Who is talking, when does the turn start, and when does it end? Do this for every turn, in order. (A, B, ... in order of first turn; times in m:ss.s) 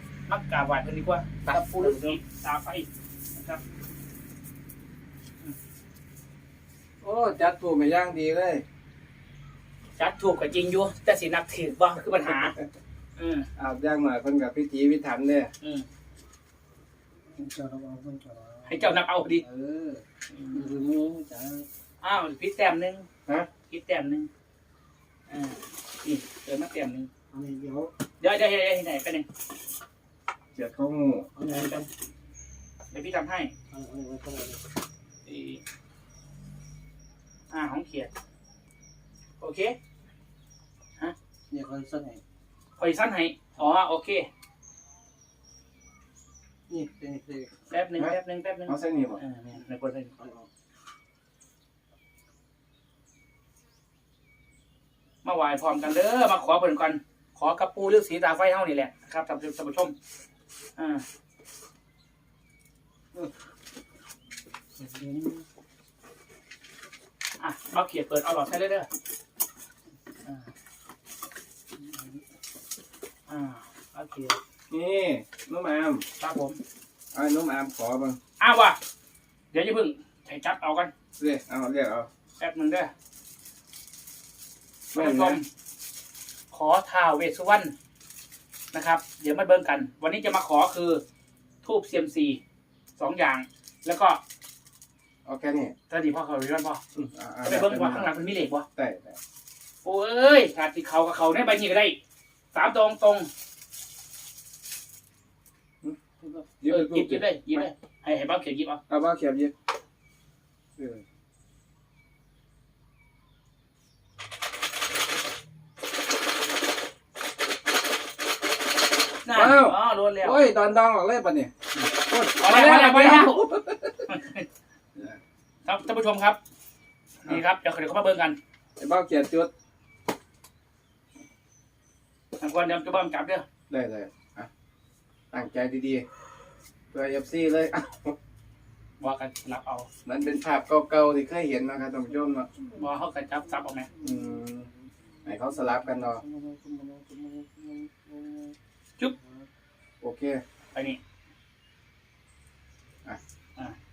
0:00.3-0:03.6 A
0:01.6-0:02.1 B
0:07.0-0:08.6 C
0:10.0-0:12.6 A
0:12.2-0:12.7 C
0:13.2-0:13.5 A
0:13.6-0:15.5 C
0:17.4-0:21.7 B
0:18.7-0:19.4 A
0:20.3-0:20.6 A
0:22.0-0:23.1 A
0:23.7-0:24.3 A
0:25.3-0:27.1 A
0:27.3-0:27.9 B
0:28.2-0:29.3 A
0:30.6-0:31.3 C
0:31.4-0:31.9 B
0:31.5-0:31.8 A
0:32.9-0:33.5 A
0:33.7-0:34.6 B
0:35.3-0:35.6 A
0:37.5-0:38.1 A
0:39.4-0:39.8 A
0:41.5-0:42.2 B
0:42.8-0:44.3 A
0:46.7-0:47.5 B
0:47.7-0:50.1 A
0:48.7-0:49.2 C
0:50.2-0:50.5 B
0:55.2-1:00.0 A
1:00.8-1:01.0 A
1:04.8-1:05.4 A
1:07.4-1:08.9 A
1:11.8-1:12.2 A
1:13.3-1:14.4 A
1:14.7-1:16.0 C
1:16.2-1:16.6 A
1:17.1-1:18.2 C
1:18.4-1:18.8 A
1:19.5-1:20.9 A
1:21.2-1:22.1 C
1:22.4-1:22.9 A
1:24.9-1:25.5 A
1:24.9-1:25.4 C
1:26.5-1:27.7 A
1:28.7-1:31.0 A
1:31.6-1:32.4 A
1:33.0-1:34.2 A
1:35.2-1:35.7 C
1:35.9-1:36.8 A
1:37.0-1:38.1 C
1:37.4-1:38.7 A
1:38.8-1:39.2 C
1:39.8-1:42.0 A
1:42.5-1:43.3 A
1:45.8-1:47.7 C
1:46.7-1:48.8 A
1:48.9-1:49.5 C
1:50.8-1:51.0 C
1:59.2-2:00.4 A
1:59.3-2:04.0 C
2:01.8-2:03.4 A
2:04.1-2:04.5 A
2:05.7-2:06.4 A
2:07.2-2:08.4 A
2:08.8-2:09.5 C
2:12.4-2:13.4 A
2:13.7-2:14.5 C
2:15.3-2:16.1 C
2:16.9-2:18.2 C
2:19.0-2:19.9 A
2:20.0-2:22.5 C
2:22.8-2:23.9 A
2:23.9-2:24.8 B
2:24.0-2:24.7 C
2:25.3-2:26.2 C
2:25.4-2:28.6 B
2:29.2-2:29.4 B
2:30.0-2:30.4 C
2:30.7-2:31.0 A